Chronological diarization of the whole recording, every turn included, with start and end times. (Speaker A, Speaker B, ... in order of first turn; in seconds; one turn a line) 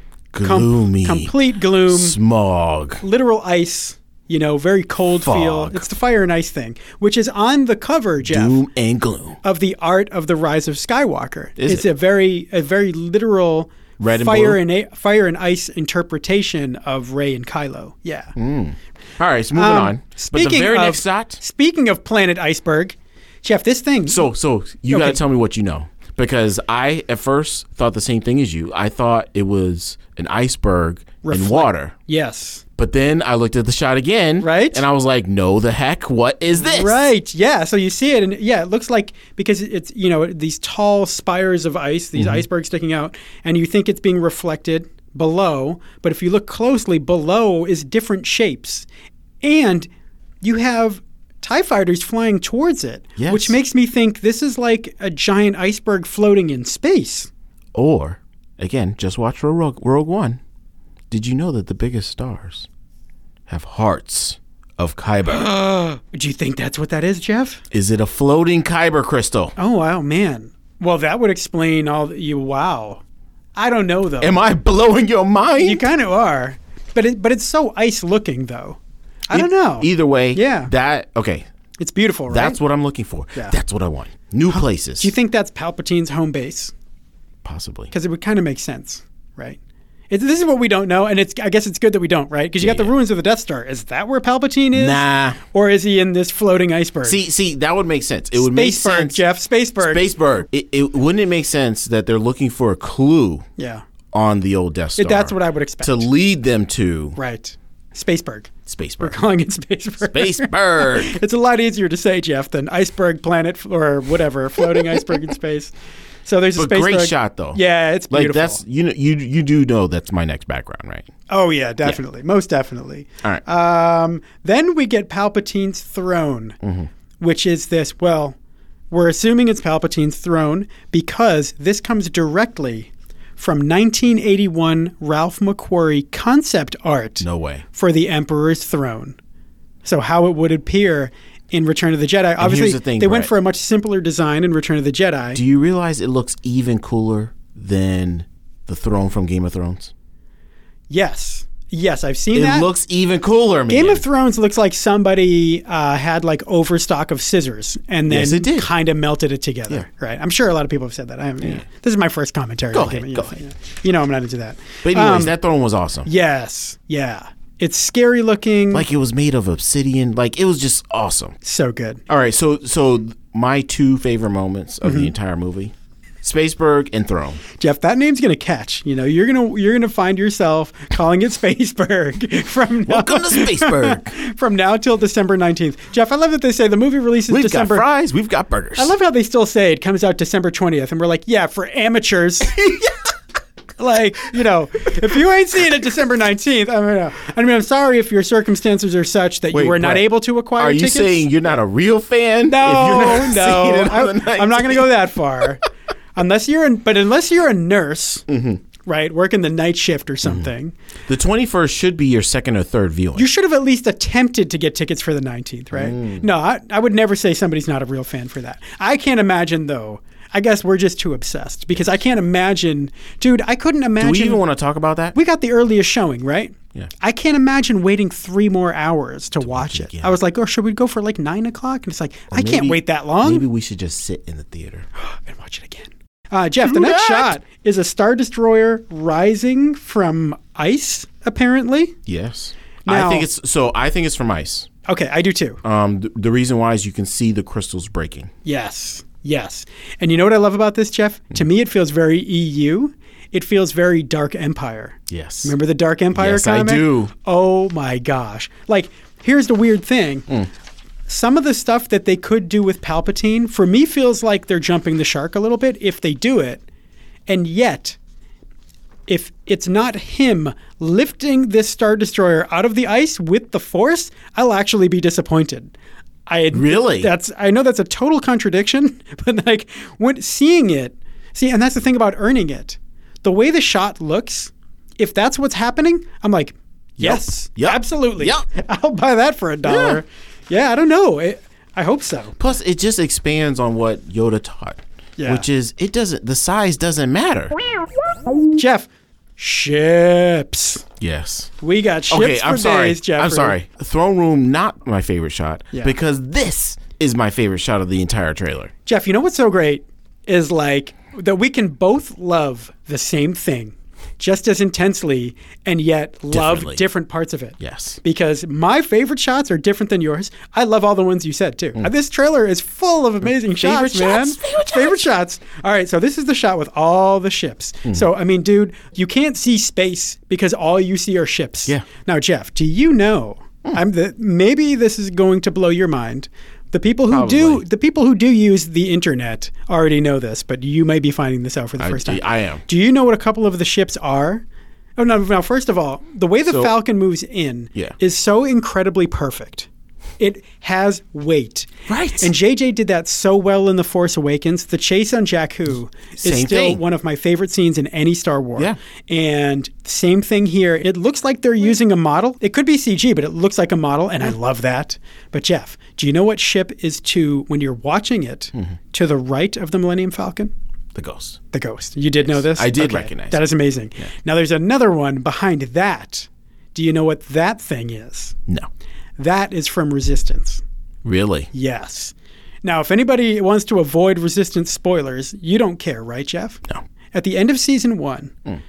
Speaker A: 0.3-1.3
Speaker B: 0.4-2.2
Speaker A: 1.9-3.0
Speaker B: 3.0-8.6
Speaker A: 5.2-5.8
Speaker A: 8.2-9.4
Speaker B: 9.4-18.3
Speaker A: 11.6-11.8
Speaker A: 14.0-14.6
Speaker A: 18.4-21.4
Speaker B: 19.5-24.2
Speaker A: 24.1-31.9
Speaker B: 24.9-25.2
Speaker B: 31.2-32.6
Speaker A: 32.8-37.0
Speaker B: 34.4-34.8
Speaker B: 36.6-48.9
Speaker A: 42.1-42.4
Speaker B: 49.4-49.9
Speaker B: 50.4-57.3
Speaker A: 53.2-53.6
Speaker A: 57.7-60.4
Speaker A: 61.1-62.7
Speaker A: 63.5-65.5
Speaker B: 65.3-67.6
Speaker A: 67.7-69.5
Speaker B: 69.6-73.0
Speaker B: 73.5-74.4
Speaker A: 74.2-75.8
Speaker B: 75.6-78.8
Speaker B: 79.3-80.7
Speaker A: 79.3-81.5
Speaker B: 81.8-82.6
Speaker A: 82.3-85.1
Speaker B: 84.5-86.7
Speaker A: 87.4-87.9
Speaker B: 87.9-89.6
Speaker B: 90.1-97.2
Speaker A: 92.6-92.9
Speaker A: 94.7-95.4
Speaker A: 97.0-99.2
Speaker B: 98.3-100.1
Speaker A: 99.8-103.5
Speaker B: 103.6-103.8
Speaker A: 104.1-107.2
Speaker B: 105.0-106.1
Speaker B: 107.2-115.7
Speaker A: 108.7-109.2
Speaker A: 110.1-111.2
Speaker A: 114.7-115.1
Speaker B: 116.2-118.6
Speaker A: 116.5-121.1
Speaker B: 121.3-126.6
Speaker A: 126.6-126.9
Speaker B: 127.2-128.3
Speaker B: 128.9-139.2
Speaker A: 137.2-137.6
Speaker B: 139.8-145.4
Speaker A: 142.4-143.3
Speaker A: 145.3-149.9
Speaker B: 150.9-152.7
Speaker A: 152.3-154.0
Speaker B: 153.7-165.3
Speaker A: 158.1-158.7
Speaker A: 162.7-163.4
Speaker A: 164.8-166.1
Speaker B: 166.1-168.8
Speaker A: 168.7-171.3
Speaker B: 171.4-172.0
Speaker A: 172.1-177.4
Speaker B: 174.8-175.1
Speaker B: 177.6-187.8
Speaker A: 182.8-184.1
Speaker A: 187.3-188.9
Speaker B: 188.8-192.7
Speaker B: 193.8-201.3
Speaker A: 199.5-204.9
Speaker B: 202.5-205.6
Speaker B: 206.2-208.2
Speaker A: 208.3-208.6
Speaker B: 208.8-210.7
Speaker A: 210.2-210.5
Speaker A: 211.1-213.3
Speaker B: 213.2-224.4
Speaker A: 215.7-216.2
Speaker A: 224.0-225.2
Speaker B: 225.1-233.4
Speaker A: 229.4-230.2
Speaker A: 232.3-234.8
Speaker B: 235.0-241.9
Speaker A: 236.6-237.3
Speaker A: 242.1-244.7
Speaker B: 242.8-243.3
Speaker B: 244.8-245.6
Speaker A: 245.6-248.3
Speaker B: 248.4-260.3
Speaker A: 255.1-255.5
Speaker A: 256.1-257.1
Speaker B: 261.1-266.6
Speaker B: 267.3-268.0
Speaker B: 269.1-275.7
Speaker B: 276.3-292.4
Speaker A: 276.5-277.1
Speaker A: 287.0-288.4
Speaker A: 289.6-290.0
Speaker A: 292.4-297.6
Speaker B: 295.2-295.5
Speaker B: 298.5-300.8
Speaker A: 301.0-301.5
Speaker B: 301.6-303.6
Speaker A: 302.1-308.7
Speaker B: 308.9-344.4
Speaker A: 316.3-316.8
Speaker A: 317.6-318.0
Speaker A: 323.2-325.1
Speaker A: 337.1-337.6
Speaker A: 341.8-342.6
Speaker B: 345.0-349.7
Speaker B: 350.2-370.5
Speaker A: 351.9-352.3
Speaker A: 356.2-356.8
Speaker A: 370.9-371.4
Speaker B: 371.5-378.3
Speaker A: 372.2-373.4
Speaker B: 379.2-380.6
Speaker A: 381.0-381.5
Speaker B: 381.5-386.6
Speaker B: 387.1-388.3